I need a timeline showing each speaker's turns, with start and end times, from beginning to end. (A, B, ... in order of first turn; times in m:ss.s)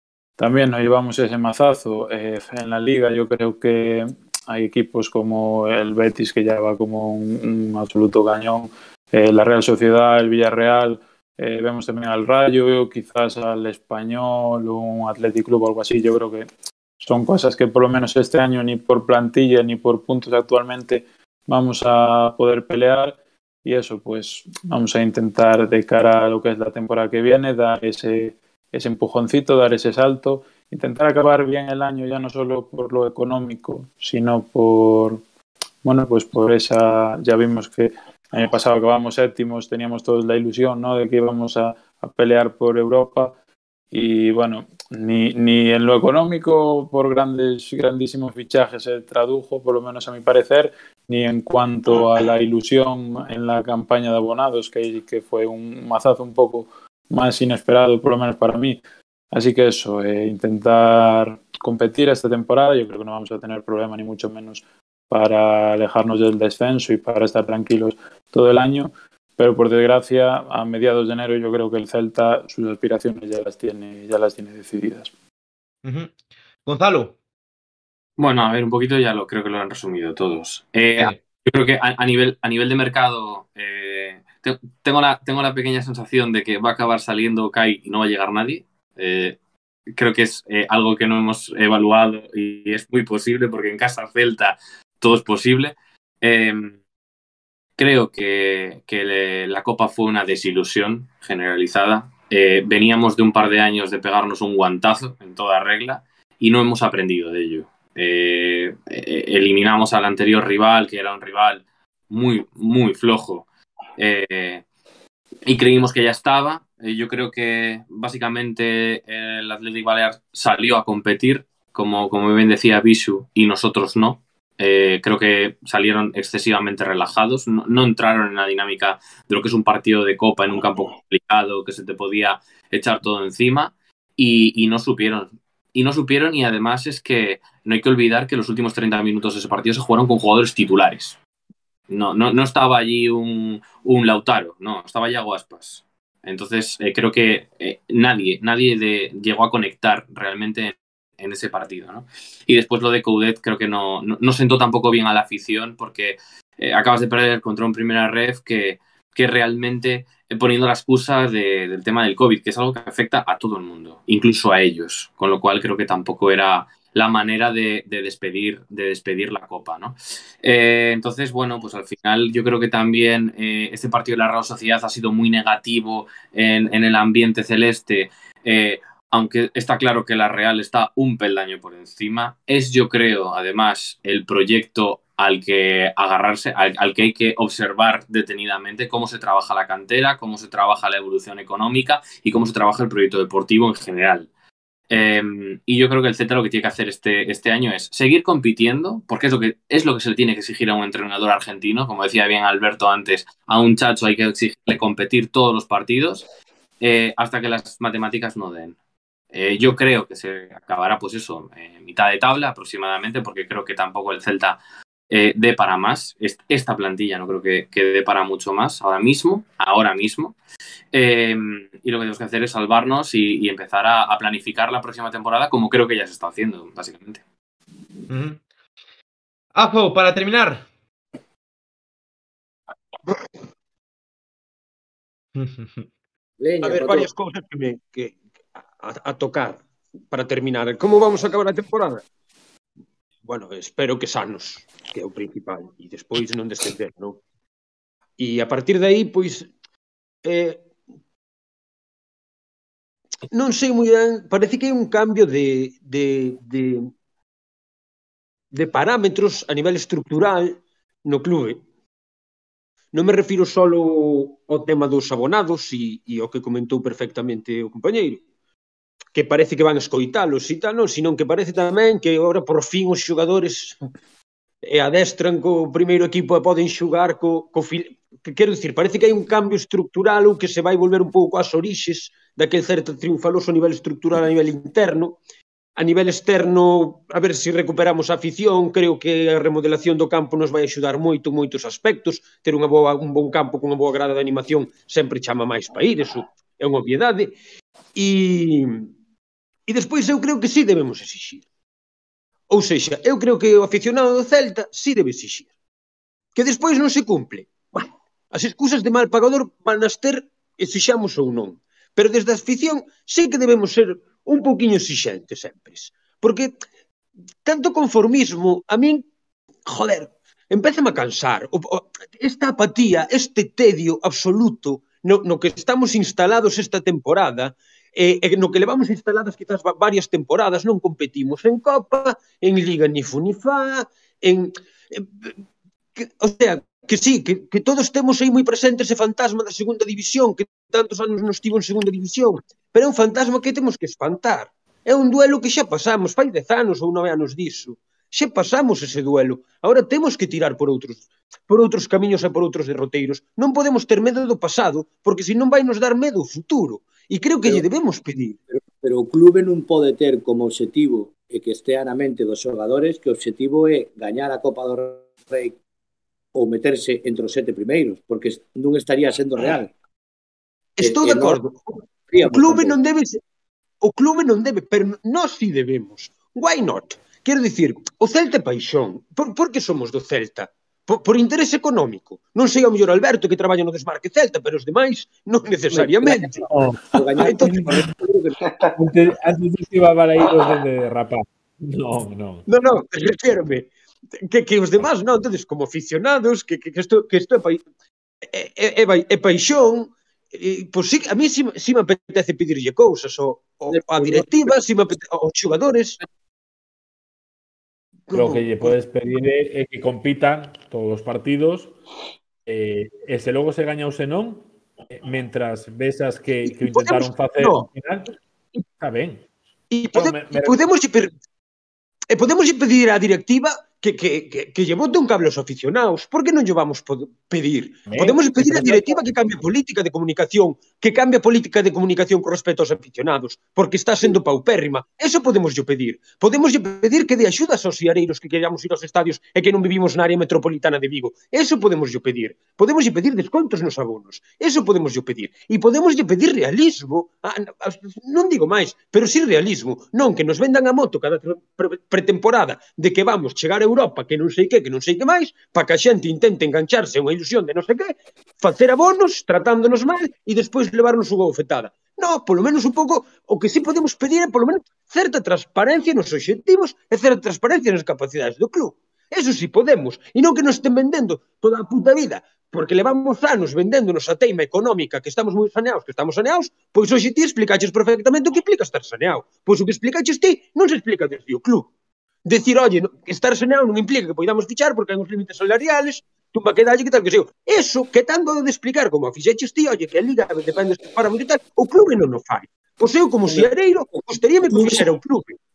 0:00.4-0:35.2 A
0:35.8-0:43.3 A
0:43.9-0:58.8 A
0:59.3-1:15.1 A
1:15.8-1:16.1 B
1:16.7-1:17.2 B
1:18.2-1:29.4 C
1:30.0-1:36.8 C
1:37.8-1:54.6 C
1:55.5-2:21.2 C
2:21.9-3:14.3 C
3:14.9-3:26.3 C
3:26.8-3:28.8 C
3:29.3-3:34.6 C
3:35.1-3:40.4 C
3:40.9-3:47.2 C
3:48.1-3:48.4 B
3:49.6-3:50.7 B
3:55.4-3:55.9 B
3:56.4-3:57.1 D
3:56.6-4:02.0 E
4:03.2-4:07.2 E
4:08.2-4:09.5 E
4:10.2-4:10.7 E
4:13.3-4:16.9 E
4:18.5-4:21.6 E
4:22.9-4:28.2 E
4:29.1-4:33.8 E
4:34.6-4:45.2 E
4:45.8-4:57.4 E
4:58.0-4:58.9 E
4:59.7-5:01.4 E
5:02.5-5:05.5 E
5:06.4-5:16.5 E
5:17.4-5:19.1 E
5:19.6-5:35.3 E
5:36.0-5:58.4 E
5:58.5-6:05.6 D
6:06.3-6:09.7 D
6:10.8-6:11.7 E
6:10.8-6:11.4 D
6:12.1-6:12.8 D
6:12.2-6:13.2 E
6:13.8-6:26.4 E
6:25.7-6:28.4 D
6:26.5-6:26.8 F
6:27.2-6:27.7 E
6:27.4-6:27.8 F
6:28.8-6:32.4 F
6:32.5-6:37.6 E
6:38.3-6:46.0 E
6:43.7-6:44.6 D
6:48.1-6:48.7 E
6:48.1-6:51.7 F
6:52.5-6:58.1 F
6:56.5-6:57.7 E
6:58.8-6:59.2 F
6:59.7-7:01.1 E
6:59.9-7:00.6 F
7:02.1-8:01.7 E
7:07.9-7:08.9 F
8:02.2-8:15.4 E
8:13.3-8:15.0 D